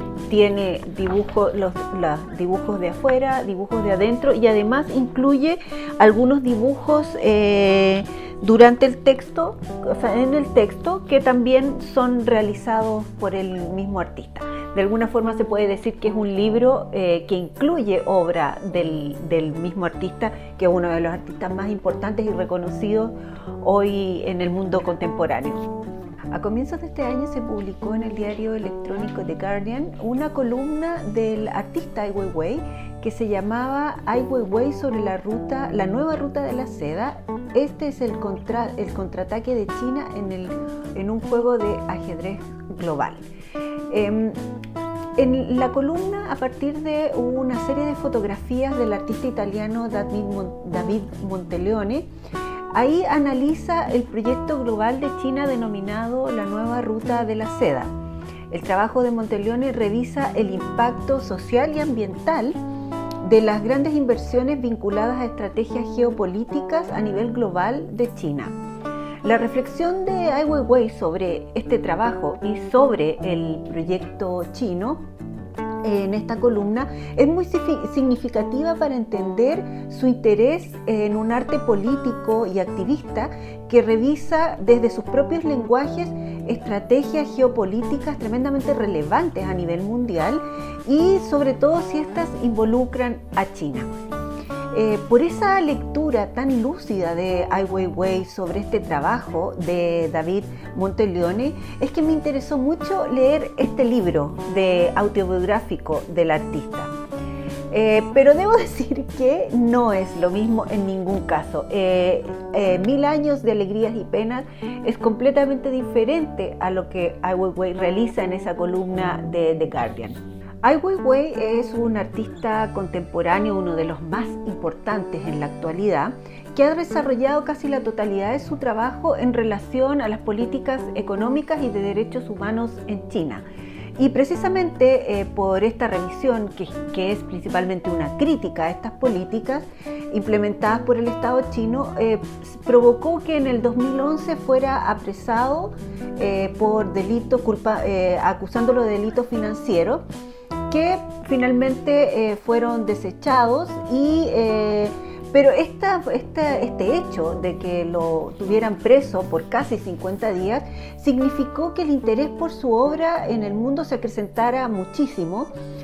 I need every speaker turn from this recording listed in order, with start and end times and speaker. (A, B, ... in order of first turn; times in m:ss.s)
0:00.3-0:25.7 A
0:26.3-0:43.2 A
0:43.9-0:44.4 A
0:45.2-0:52.1 A
0:52.7-0:57.9 A
0:58.5-1:02.6 A
1:03.2-1:08.5 A
1:09.2-1:15.0 A
1:15.8-1:34.0 A
1:34.7-1:46.9 A
1:47.7-2:13.4 A
2:14.0-2:30.0 A
2:30.7-2:45.5 A